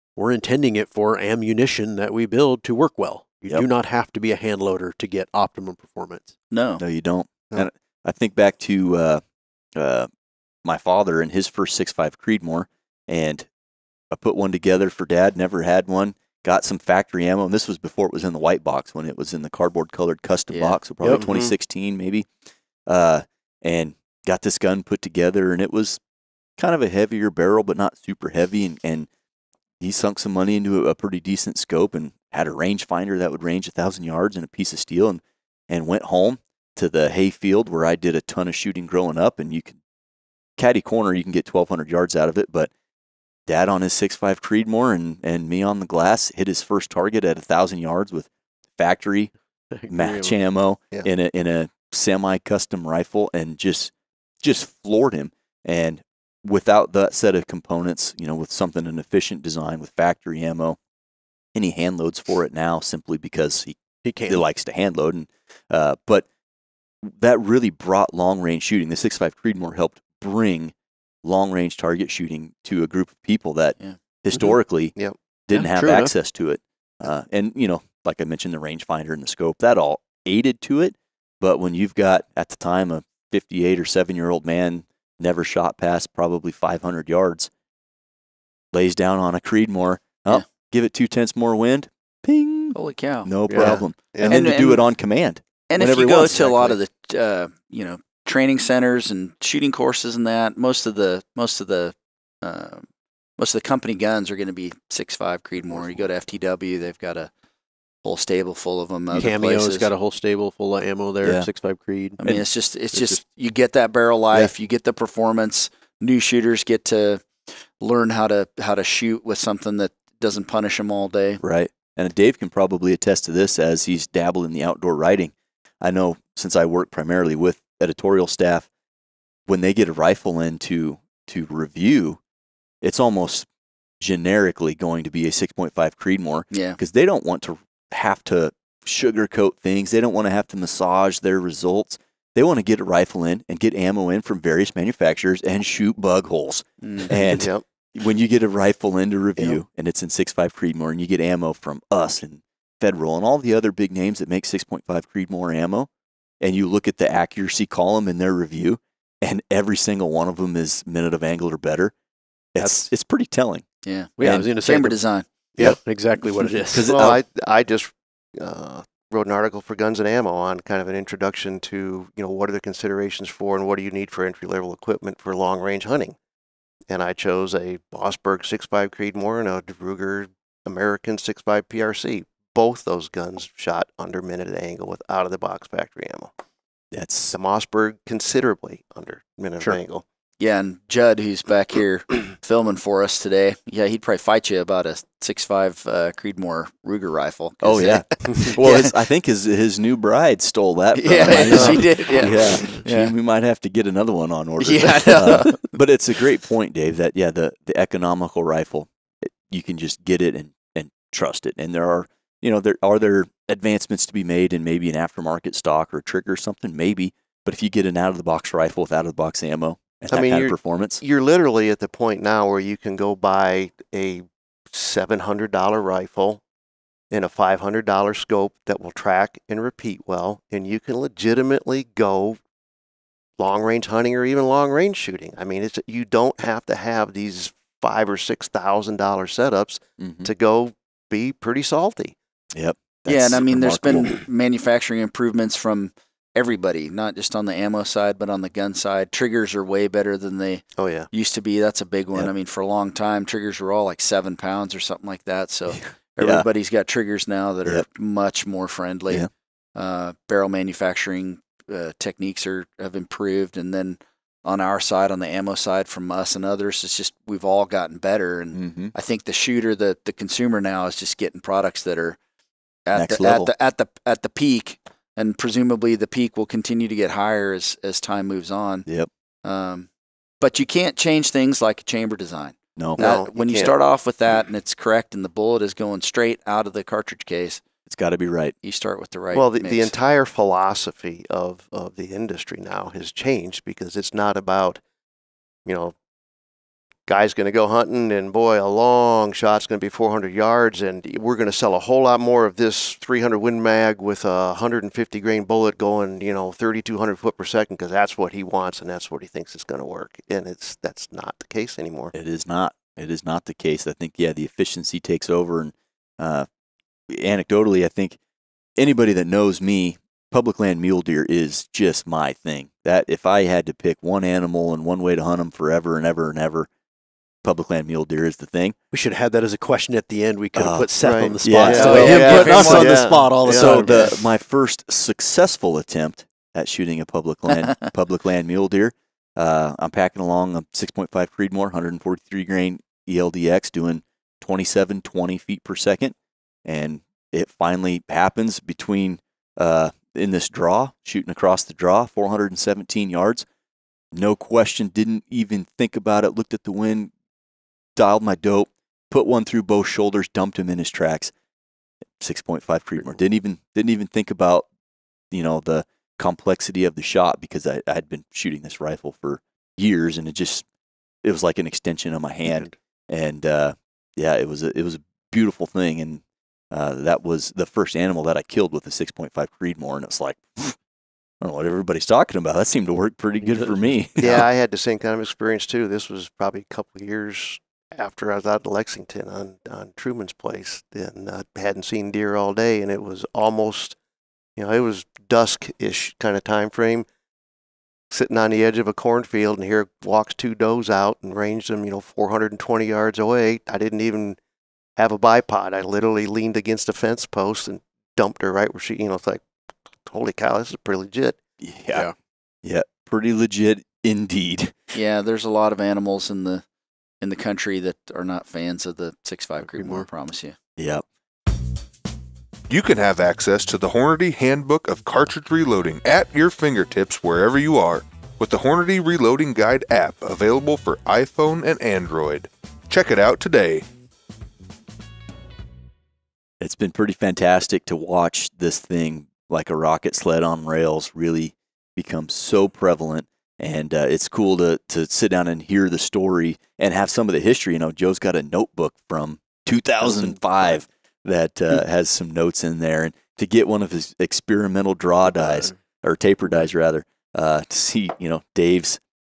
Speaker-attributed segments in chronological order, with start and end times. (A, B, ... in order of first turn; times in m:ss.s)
0:00.2-0:06.3 A
0:06.5-0:06.8 B
0:06.8-0:09.2 C
0:09.8-0:10.1 C
0:10.6-0:13.5 C
0:14.1-0:22.3 C
0:20.5-0:20.8 B
0:21.1-0:21.4 D
0:22.9-0:26.0 C
0:26.6-0:29.1 C
0:29.8-0:39.8 C
0:40.6-0:42.7 C
0:43.5-0:49.3 C
0:49.7-0:50.4 A
0:49.9-1:00.8 C
1:01.6-1:06.3 C
1:04.0-1:04.4 A
1:07.0-1:10.7 C
1:11.2-1:14.9 C
1:15.5-1:27.5 C
1:15.5-1:16.2 A
1:28.7-1:36.8 C
1:32.7-1:33.3 B
1:33.5-1:33.8 A
1:33.6-1:34.4 D
1:34.2-1:34.8 B
1:35.7-1:42.8 B
1:43.4-1:47.3 B
1:48.0-1:49.9 B
1:49.1-1:52.2 A
1:51.2-1:51.5 C
1:52.2-1:57.3 B
1:52.2-1:53.2 C
1:57.8-2:01.4 B
2:01.4-2:08.7 C
2:09.5-2:12.2 C
2:12.8-2:13.5 C
2:14.0-2:35.9 C
2:16.5-2:16.8 B
2:26.8-2:27.1 B
2:27.3-2:27.6 D
2:36.4-2:41.9 C
2:42.5-2:43.7 C
2:42.6-2:42.9 A
2:43.8-2:45.3 B
2:44.2-2:45.0 A
2:44.2-2:44.5 C
2:45.6-2:46.9 A
2:46.7-2:47.2 C
2:46.9-2:56.2 D
2:56.9-3:06.3 D
3:06.9-3:07.4 C
3:07.3-3:10.0 D
3:10.4-3:18.9 B
3:17.6-3:41.0 C
3:21.0-3:23.1 B
3:21.5-3:21.9 D
3:24.6-3:25.6 B
3:40.1-3:46.4 D
3:47.1-3:52.4 D
3:53.4-4:02.2 D
4:00.0-4:00.3 C
4:02.5-4:04.1 C
4:03.1-4:32.2 B
4:10.8-4:11.1 D
4:15.7-4:16.5 C
4:28.5-4:28.9 C
4:32.9-4:38.9 B
4:33.0-4:33.5 C
4:39.4-4:39.9 B
4:40.4-4:47.6 B
4:43.0-4:43.8 D
4:47.9-4:48.6 C
4:48.6-4:49.9 B
4:49.3-4:54.8 D
4:55.7-4:56.0 D
4:57.1-5:12.1 D
5:12.1-5:16.5 C
5:17.1-5:18.2 C
5:18.8-5:26.7 C
5:27.4-5:28.8 C
5:28.9-5:34.1 A
5:30.6-5:30.9 C
5:31.0-5:34.1 D
5:31.4-5:53.4 C
5:31.7-5:33.0 B
5:54.1-5:57.1 C
5:58.0-6:01.3 C
6:02.2-6:04.7 C
6:05.3-6:10.6 C
6:11.2-6:20.8 C
6:12.5-6:12.7 A
6:21.4-6:24.5 C
6:23.4-6:23.8 A
6:24.2-6:34.0 D
6:34.6-6:37.1 D
6:38.1-6:44.4 D
6:45.0-6:49.4 D
6:50.0-6:51.4 D
6:51.6-6:52.1 C
6:52.6-6:54.8 C
6:54.9-6:56.6 B
6:57.2-7:00.6 B
6:59.7-7:00.1 A
7:00.8-7:01.0 C
7:02.7-7:13.8 E
7:16.6-7:39.0 C
7:30.0-7:30.6 A
7:35.3-7:35.7 A